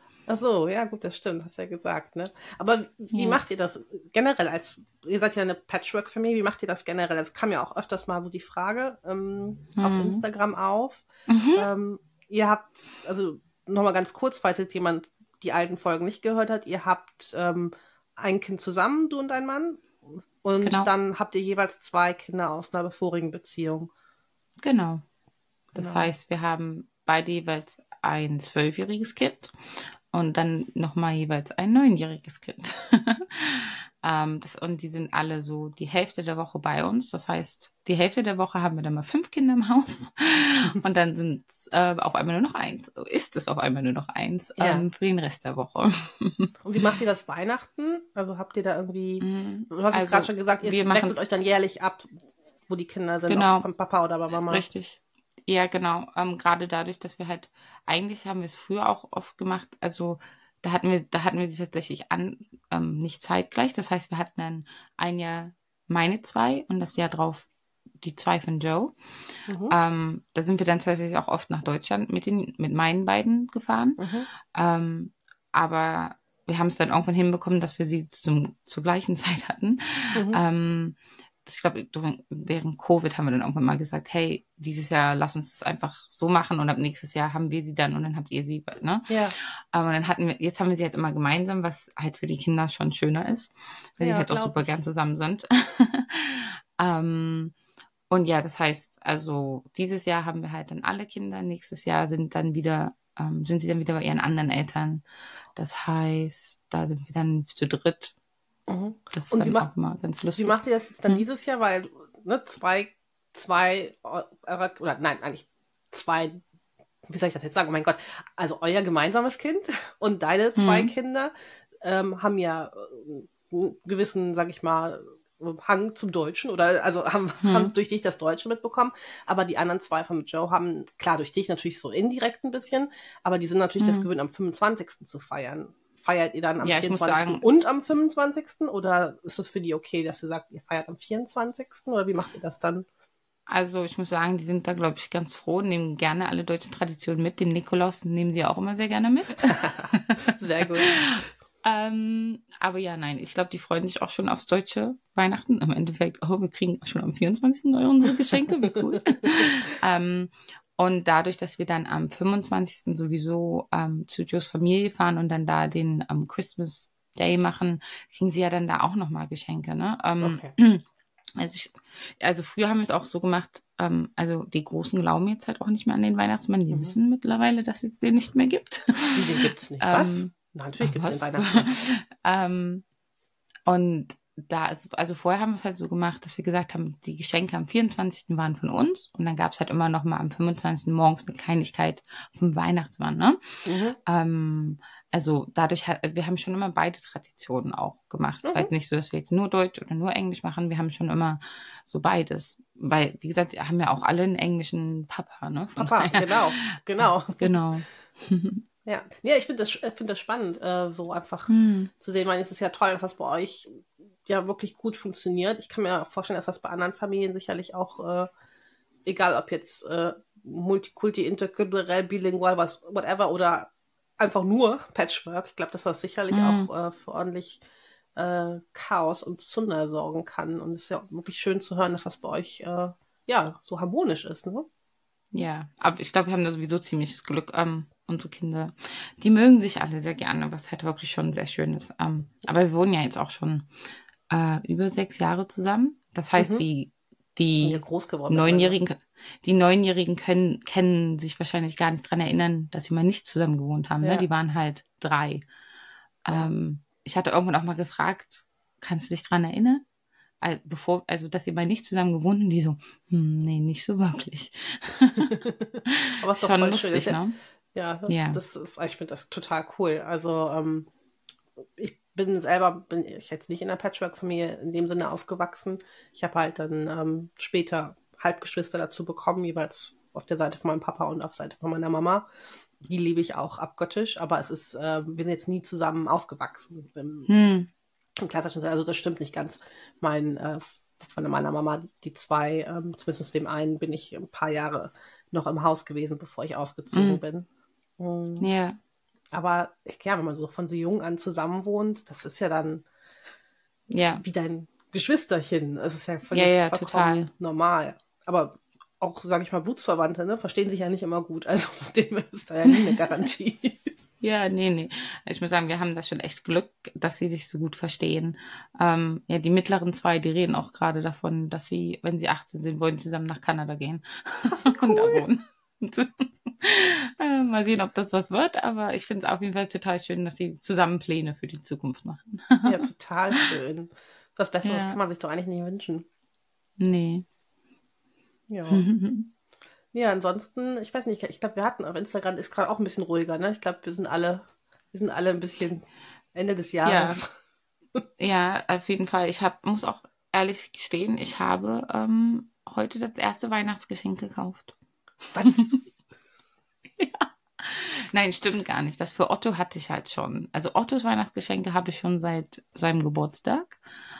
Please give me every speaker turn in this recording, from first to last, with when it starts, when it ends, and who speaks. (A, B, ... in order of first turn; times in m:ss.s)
0:00.3-0:23.9 A
0:03.1-0:03.4 B
0:09.8-0:10.2 B
0:11.3-0:11.7 B
0:20.6-0:20.9 B
0:24.6-0:25.0 B
0:25.7-0:29.5 B
0:25.8-0:26.1 A
0:30.1-0:46.9 B
0:44.6-0:44.8 A
0:46.6-0:54.6 A
0:49.2-0:51.2 B
0:53.3-0:53.7 B
0:54.5-1:07.5 B
1:08.0-1:09.0 B
1:09.5-1:09.7 A
1:09.7-1:37.5 B
1:14.0-1:14.3 A
1:20.1-1:20.4 A
1:29.1-1:29.4 A
1:34.0-1:34.7 A
1:38.1-1:45.0 B
1:45.6-1:48.1 B
1:48.7-1:49.7 A
1:49.1-1:51.2 B
1:50.4-1:56.4 A
1:57.0-2:22.8 A
2:00.6-2:00.9 B
2:07.4-2:07.7 B
2:13.8-2:14.1 B
2:16.6-2:17.4 B
2:23.5-2:50.8 B
2:29.5-2:31.1 A
2:50.2-2:50.5 A
2:51.4-3:02.8 B
2:56.7-2:57.0 A
2:59.1-3:01.7 A
3:03.7-3:28.6 B
3:13.6-3:14.0 A
3:18.4-3:18.7 A
3:25.8-3:27.6 A
3:28.8-3:38.3 A
3:31.5-3:31.9 B
3:39.0-3:47.6 A
3:46.3-3:46.7 B
3:48.2-3:54.7 A
3:55.3-4:03.7 B
4:04.3-4:15.4 B
4:06.4-4:06.6 A
4:07.6-4:08.8 A
4:14.0-4:14.2 A
4:16.2-4:19.8 B
4:20.4-4:27.4 B
4:25.3-4:27.2 A
4:27.7-4:30.9 A
4:28.1-4:28.4 B
4:31.8-4:42.3 A
4:42.8-4:47.3 A
4:47.3-4:47.7 B
4:48.2-4:57.5 A
4:56.9-4:57.2 B
4:58.0-4:58.5 A
4:58.4-4:58.8 B
4:59.3-5:02.8 A
5:03.9-5:04.2 B
5:04.2-5:13.9 A
5:06.3-5:07.3 B
5:14.2-5:32.8 B
5:24.5-5:25.3 A
5:32.6-5:36.1 A
5:34.6-5:35.0 B
5:36.8-5:37.2 B
5:38.5-5:38.8 A
5:38.7-5:39.3 B
5:39.9-5:47.3 A
5:46.8-5:47.2 B
5:48.2-5:54.7 B
5:55.3-5:55.9 A
5:55.4-5:55.8 B
5:57.0-6:03.8 B